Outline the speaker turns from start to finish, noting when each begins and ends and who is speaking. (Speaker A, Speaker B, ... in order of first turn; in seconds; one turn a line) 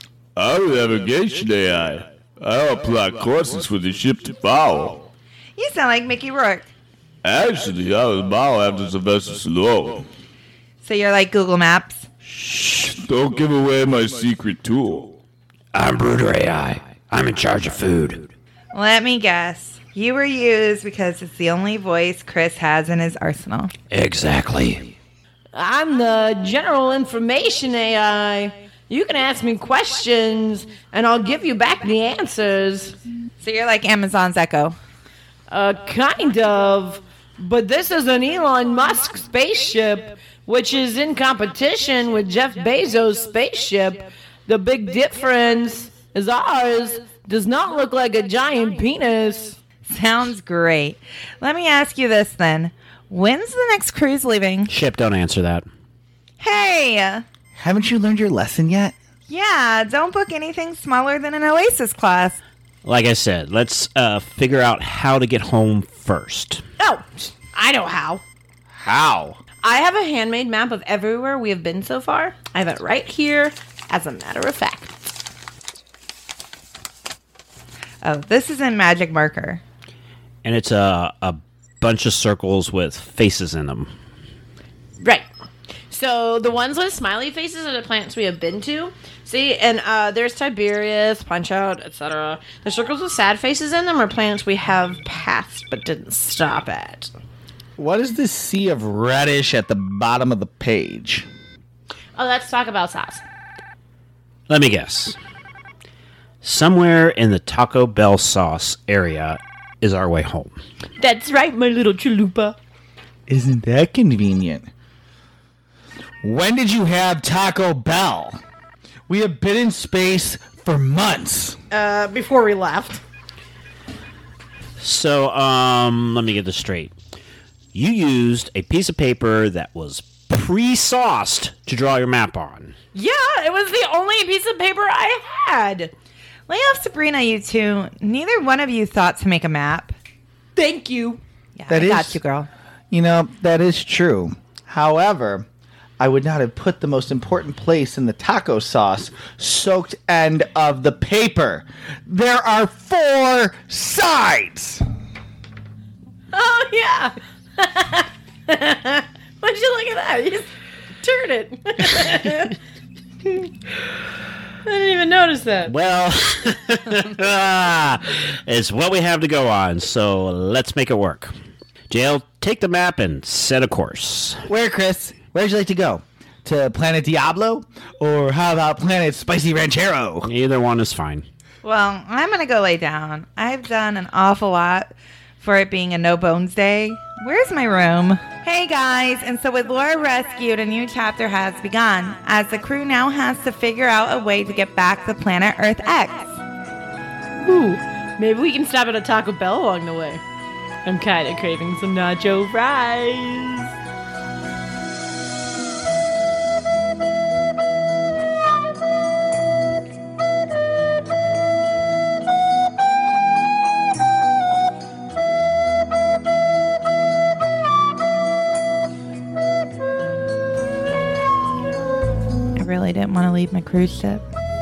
Speaker A: 0.4-5.0
Speaker B: 5.6-6.7
Speaker A: 7.2-10.1
Speaker B: 10.8-12.1
Speaker C: 12.3-12.9
Speaker A: 12.9-15.2
Speaker C: 15.7-18.3
Speaker B: 18.7-23.7
Speaker C: 23.9-24.9
Speaker D: 25.5-33.0
Speaker B: 33.4-34.8
Speaker D: 35.5-49.6
Speaker B: 49.9-54.7
Speaker C: 54.7-55.6
Speaker B: 56.4-57.2
Speaker E: 57.6-58.9
Speaker B: 59.3-62.4
Speaker C: 62.8-66.6
Speaker D: 66.8-68.2
Speaker E: 68.8-69.4
Speaker D: 69.6-75.1
Speaker B: 78.0-79.6
Speaker C: 80.4-83.9
Speaker D: 85.0-85.3
Speaker D: 85.9-97.1
Speaker E: 97.8-101.3
Speaker D: 102.2-103.2
Speaker C: 104.5-105.2
Speaker C: 106.4-110.6
Speaker D: 111.0-112.6
Speaker E: 113.3-114.7
Speaker E: 116.2-118.4
Speaker E: 119.1-121.6
Speaker D: 121.7-123.0
Speaker C: 124.8-126.9
Speaker C: 127.7-132.7
Speaker D: 132.9-135.9
Speaker B: 136.5-139.9
Speaker D: 140.6-141.2
Speaker B: 141.6-142.5
Speaker E: 141.7-142.2
Speaker E: 142.9-145.4
Speaker E: 146.0-154.8
Speaker D: 156.3-160.5
Speaker D: 161.0-162.5
Speaker D: 164.6-165.7
Speaker C: 165.7-171.3
Speaker C: 171.9-174.4
Speaker E: 174.5-180.3
Speaker C: 180.2-181.3
Speaker B: 181.6-196.4
Speaker D: 197.4-200.2
Speaker D: 200.8-203.7
Speaker B: 222.6-224.2